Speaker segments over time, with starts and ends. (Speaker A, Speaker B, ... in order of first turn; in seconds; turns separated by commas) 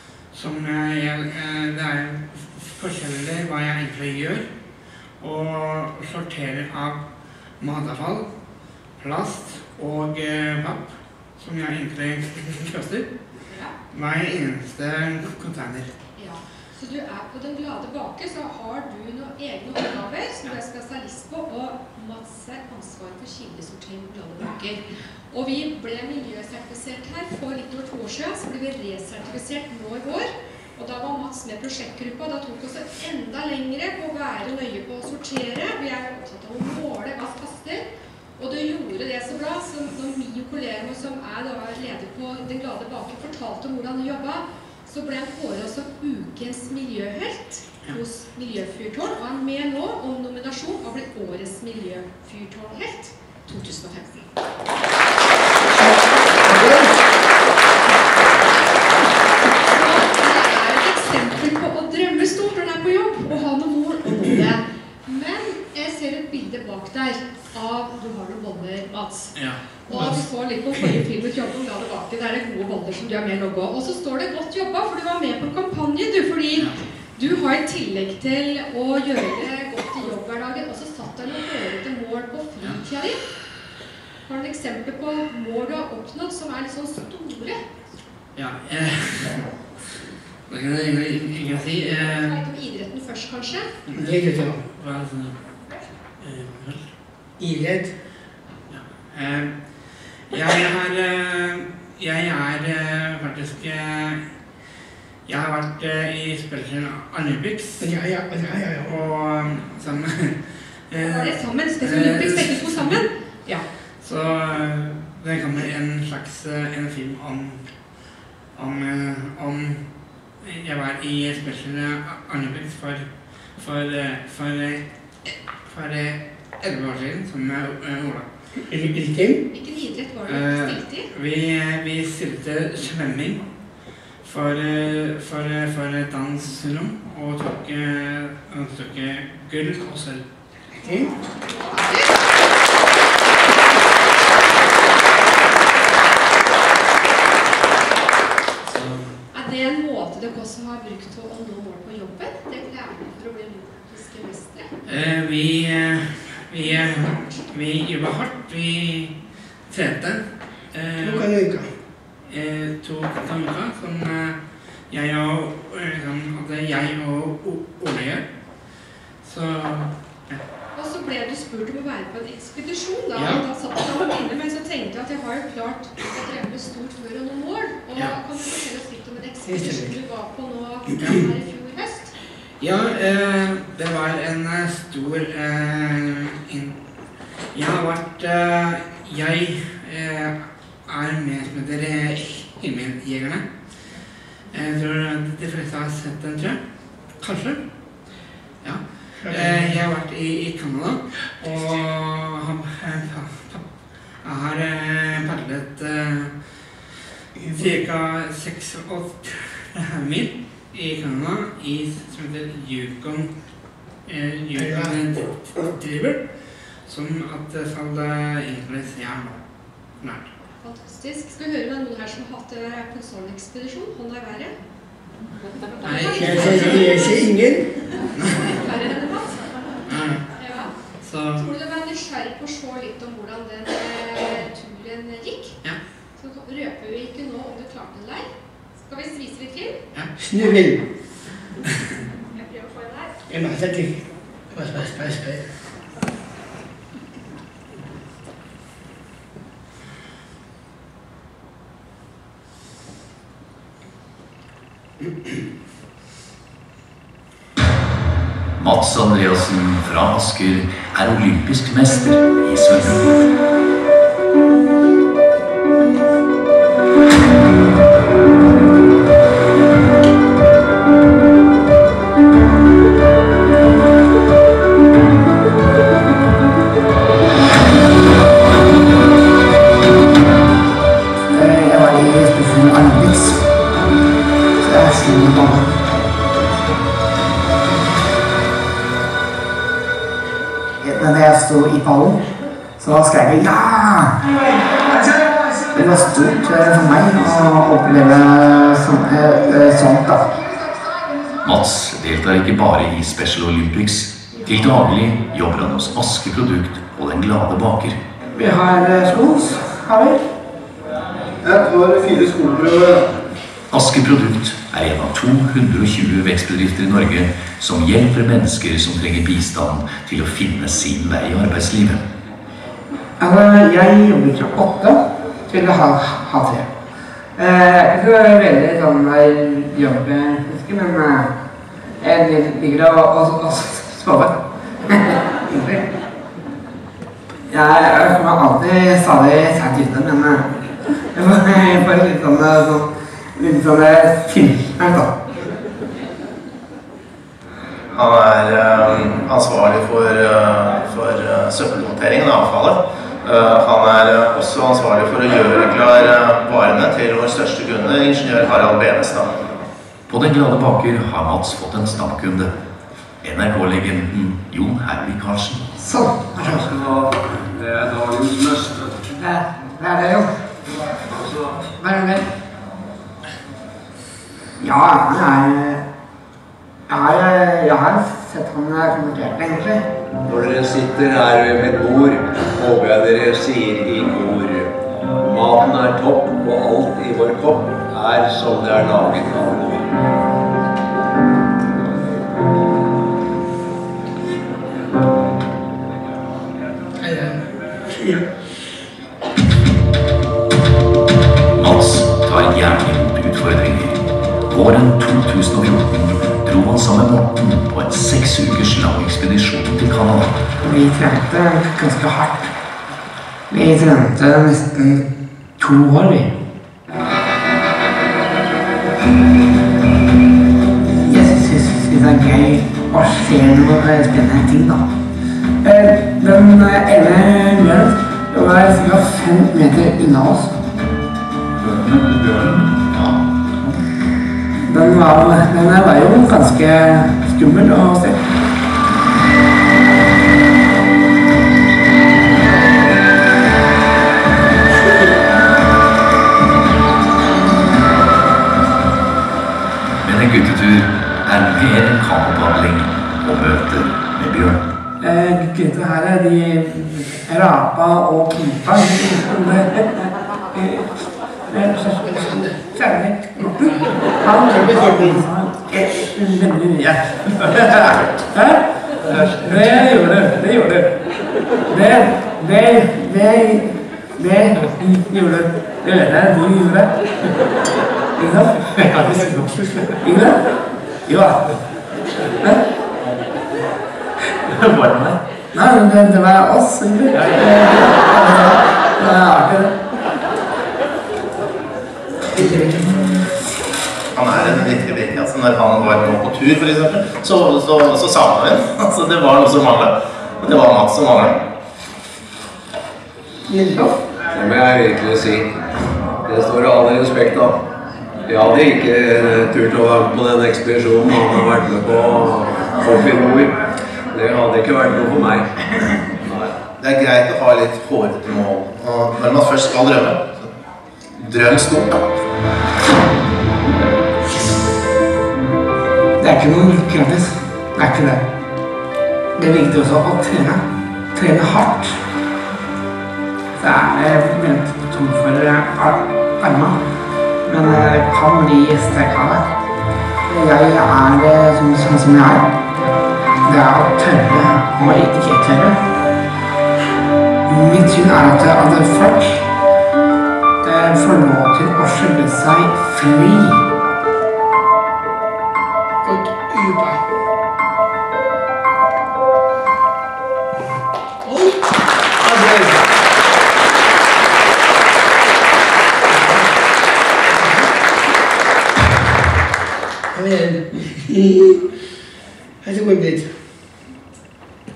Speaker A: 0.3-4.4, Speaker A: 5.2-7.0, Speaker A: 7.6-8.2, Speaker A: 9.0-13.1, Speaker B: 13.5-13.7, Speaker A: 13.9-15.9, Speaker B: 16.2-37.8, Speaker B: 38.4-54.2, Speaker C: 55.8-56.9, Speaker B: 59.7-69.3, Speaker A: 69.3-69.6, Speaker B: 69.8-83.2, Speaker C: 69.9-70.2, Speaker B: 84.2-87.7, Speaker A: 88.3-89.5, Speaker A: 90.5-92.3, Speaker B: 91.9-93.7, Speaker A: 93.9-94.2, Speaker C: 93.9-94.6, Speaker A: 94.7-95.4, Speaker A: 96.2-96.8, Speaker C: 97.4-97.9, Speaker A: 98.7-99.5, Speaker A: 100.3-104.2, Speaker A: 105.2-107.9, Speaker C: 107.8-108.9, Speaker A: 108.8-113.0, Speaker B: 110.9-113.6, Speaker A: 114.0-117.6, Speaker A: 118.5-119.8, Speaker A: 120.4-128.3, Speaker C: 128.7-129.4, Speaker B: 129.5-131.1, Speaker A: 130.3-133.4, Speaker A: 134.2-140.2, Speaker C: 140.8-141.1, Speaker B: 141.5-142.1, Speaker A: 148.7-149.1, Speaker B: 149.3-154.7, Speaker A: 154.9-159.1, Speaker B: 156.6-157.4, Speaker A: 159.7-161.3, Speaker C: 161.0-161.7, Speaker A: 162.3-164.4, Speaker A: 164.9-168.2, Speaker A: 169.2-170.4, Speaker B: 170.7-182.1, Speaker A: 173.1-173.4, Speaker C: 179.4-179.9, Speaker A: 182.6-186.8, Speaker A: 187.5-193.4, Speaker A: 194.5-196.6, Speaker A: 197.2-197.6, Speaker A: 198.6-203.6, Speaker C: 199.2-199.8, Speaker A: 204.2-206.3, Speaker C: 207.4-207.8, Speaker A: 207.5-213.3, Speaker A: 214.1-216.2, Speaker C: 214.6-215.0, Speaker A: 216.8-219.4, Speaker A: 220.0-220.3, Speaker B: 220.6-224.5, Speaker B: 225.8-226.9, Speaker A: 225.8-226.9, Speaker C: 226.2-227.7, Speaker A: 228.2-228.5, Speaker B: 228.4-229.5, Speaker A: 229.9-230.2, Speaker B: 230.3-230.7, Speaker A: 231.0-231.5, Speaker B: 231.3-235.6, Speaker B: 236.2-238.2, Speaker B: 238.8-239.8, Speaker C: 240.2-240.8, Speaker B: 242.5-243.1, Speaker C: 243.3-245.4, Speaker D: 258.6-263.2, Speaker E: 281.3-283.4, Speaker E: 284.6-285.7, Speaker E: 290.8-292.2, Speaker E: 292.8-294.2, Speaker E: 295.7-300.5, Speaker D: 301.4-308.0, Speaker E: 308.3-310.2, Speaker F: 311.4-313.1, Speaker D: 313.7-322.0, Speaker E: 323.2-326.7, Speaker E: 327.4-331.3, Speaker E: 332.0-335.8, Speaker E: 337.5-340.5, Speaker E: 341.1-345.1, Speaker G: 347.9-359.5, Speaker D: 360.1-362.5, Speaker D: 363.2-365.7, Speaker E: 365.8-366.4, Speaker H: 366.4-369.0, Speaker E: 369.1-370.3, Speaker E: 371.8-372.3, Speaker E: 374.6-375.8, Speaker E: 376.9-379.8, Speaker H: 380.2-389.9, Speaker C: 397.0-398.2, Speaker D: 401.5-410.4, Speaker E: 410.6-412.5, Speaker E: 413.5-415.1, Speaker E: 415.6-416.3, Speaker E: 420.8-424.9, Speaker E: 425.6-430.5, Speaker F: 431.6-432.4, Speaker D: 431.7-433.8, Speaker E: 434.6-438.3, Speaker D: 450.0-454.6, Speaker E: 455.0-470.9, Speaker C: 462.0-462.6, Speaker C: 464.4-465.2, Speaker E: 471.6-476.9, Speaker E: 478.2-479.3, Speaker C: 478.9-479.9, Speaker E: 480.0-480.4, Speaker E: 481.0-481.4, Speaker D: 484.7-485.2, Speaker E: 485.5-489.7, Speaker E: 492.4-492.8, Speaker G: 494.1-501.4, Speaker C: 503.5-503.9, Speaker H: 504.3-505.5, Speaker H: 506.2-507.6, Speaker H: 508.2-513.6, Speaker H: 514.1-516.6, Speaker G: 516.7-520.5, Speaker G: 521.2-522.0, Speaker E: 526.2-528.2, Speaker E: 529.4-530.6, Speaker E: 531.1-532.0, Speaker E: 533.6-536.8, Speaker E: 537.4-539.4, Speaker E: 540.3-542.5, Speaker E: 543.4-545.8, Speaker E: 547.5-549.4, Speaker E: 550.6-553.6, Speaker C: 556.0-557.0, Speaker C: 561.2-561.6, Speaker C: 562.2-562.8, Speaker C: 566.1-566.4, Speaker C: 567.3-567.7, Speaker C: 570.1-571.6, Speaker C: 572.6-573.3